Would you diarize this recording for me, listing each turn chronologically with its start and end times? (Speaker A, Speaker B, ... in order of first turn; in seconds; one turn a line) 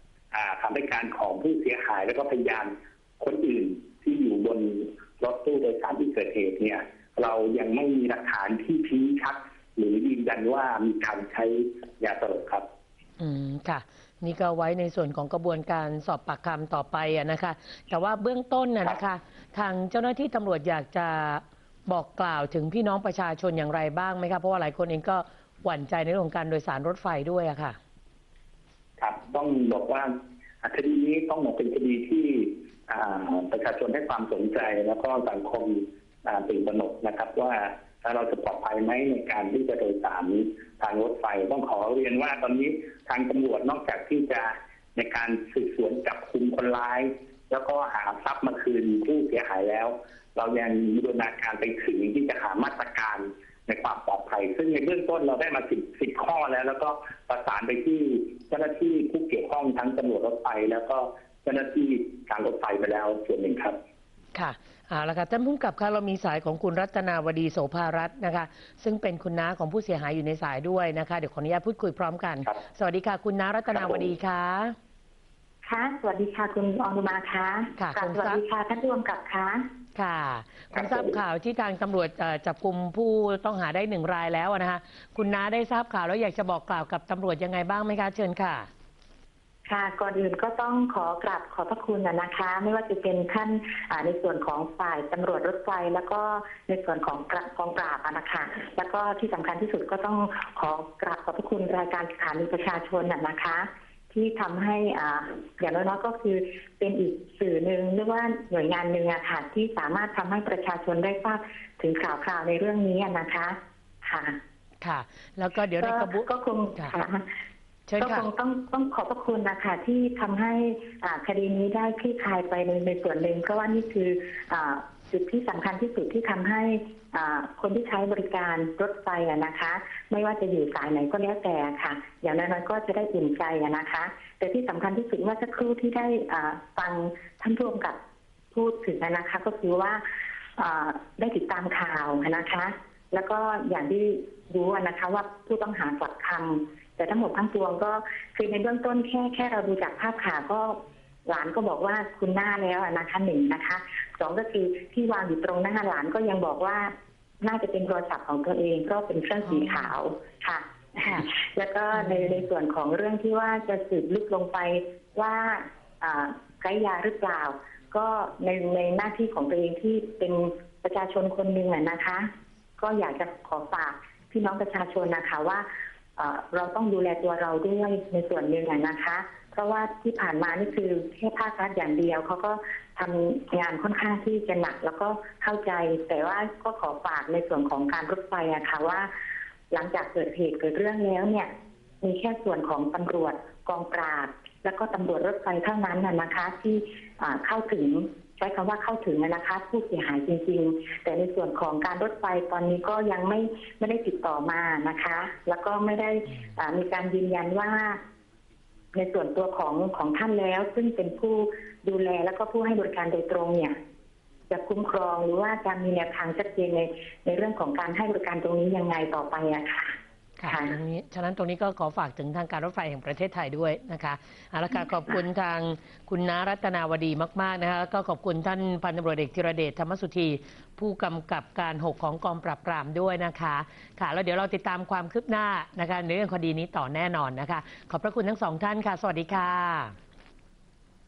Speaker A: 0.3-12.7
Speaker B: 13.2-27.8
Speaker A: 29.0-30.1
Speaker A: 30.6-63.8
Speaker B: 64.3-74.8
Speaker A: 73.7-74.0
Speaker C: 75.6-79.7
Speaker B: 77.8-78.4
Speaker B: 80.0-88.7
Speaker A: 80.7-81.0
Speaker C: 89.7-114.4
Speaker B: 114.8-117.0
Speaker C: 115.8-117.2
Speaker B: 117.9-118.3
Speaker C: 118.0-138.0
Speaker C: 138.5-140.0
Speaker C: 140.6-189.1
Speaker B: 159.5-159.9
Speaker B: 162.0-162.4
Speaker C: 189.7-191.5
Speaker C: 192.0-208.0
Speaker C: 208.9-213.8
Speaker C: 214.5-220.7
Speaker B: 220.4-239.9